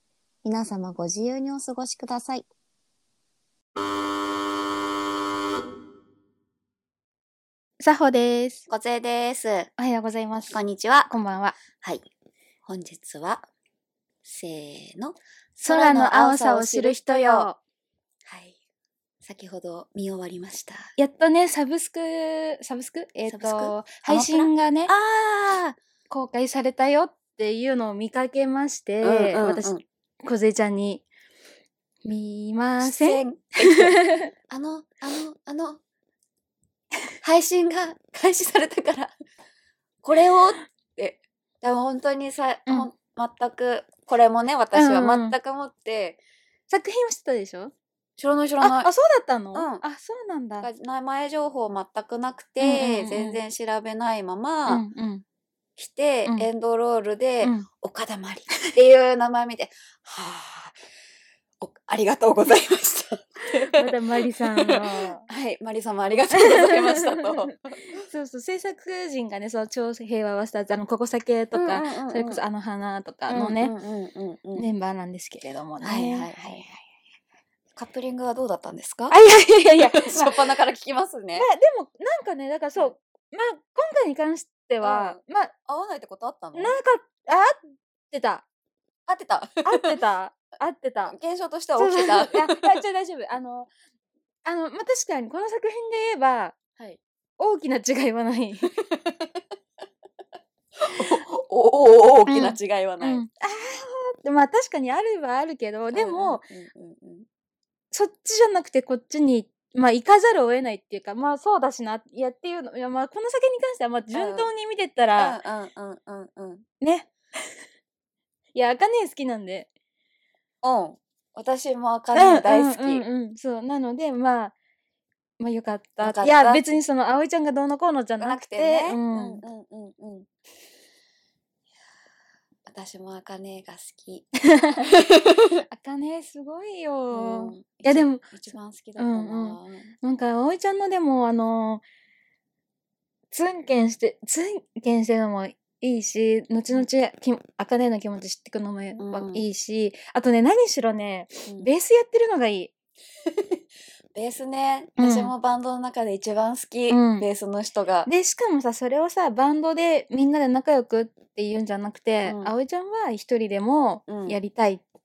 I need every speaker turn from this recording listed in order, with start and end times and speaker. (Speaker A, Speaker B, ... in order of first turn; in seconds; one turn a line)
Speaker A: 0.4-2.4
Speaker B: 7.8-8.7
Speaker C: 8.7-9.7
Speaker B: 9.8-11.6
Speaker C: 10.5-11.1
Speaker C: 11.8-12.1
Speaker C: 12.7-13.5
Speaker C: 14.2-17.5
Speaker B: 15.6-17.6
Speaker C: 18.3-18.6
Speaker C: 19.2-20.9
Speaker B: 21.0-24.9
Speaker C: 23.3-25.8
Speaker B: 26.1-31.0
Speaker C: 29.0-29.8
Speaker B: 32.0-34.3
Speaker C: 32.8-35.8
Speaker C: 37.2-39.1
Speaker C: 40.0-46.2
Speaker B: 44.7-45.4
Speaker B: 46.7-47.7
Speaker C: 48.2-48.9
Speaker B: 48.6-50.7
Speaker C: 49.5-49.8
Speaker C: 50.6-54.8
Speaker B: 52.6-53.4
Speaker B: 54.7-55.2
Speaker C: 55.8-60.8
Speaker B: 57.4-57.7
Speaker C: 61.6-67.9
Speaker B: 63.7-65.2
Speaker B: 66.3-73.7
Speaker C: 71.5-72.4
Speaker C: 73.3-74.7
Speaker B: 74.5-76.8
Speaker C: 75.8-76.7
Speaker C: 77.8-79.2
Speaker B: 79.1-80.3
Speaker C: 79.8-81.5
Speaker B: 81.4-85.5
Speaker C: 84.8-86.8
Speaker B: 86.5-87.6
Speaker B: 88.1-88.4
Speaker C: 89.1-90.0
Speaker B: 89.6-91.1
Speaker C: 91.1-92.7
Speaker B: 91.8-93.7
Speaker B: 94.4-96.5
Speaker B: 97.4-98.7
Speaker C: 98.8-99.3
Speaker C: 100.8-103.3
Speaker B: 102.3-106.4
Speaker C: 105.9-107.3
Speaker B: 107.9-115.4
Speaker C: 114.1-114.5
Speaker C: 115.2-116.7
Speaker B: 116.8-117.1
Speaker B: 118.5-119.7
Speaker C: 120.6-123.0
Speaker B: 122.1-124.5
Speaker B: 125.4-129.4
Speaker C: 126.0-126.7
Speaker C: 128.2-130.3
Speaker C: 132.7-134.3
Speaker B: 134.5-134.9
Speaker C: 134.9-135.6
Speaker B: 135.7-138.2
Speaker C: 137.1-139.9
Speaker B: 139.0-141.8
Speaker B: 143.3-152.7
Speaker C: 149.0-149.4
Speaker C: 153.3-153.6
Speaker C: 154.1-158.1
Speaker B: 155.0-155.3
Speaker B: 156.9-157.3
Speaker B: 158.1-164.8
Speaker C: 162.2-162.5
Speaker C: 164.1-164.4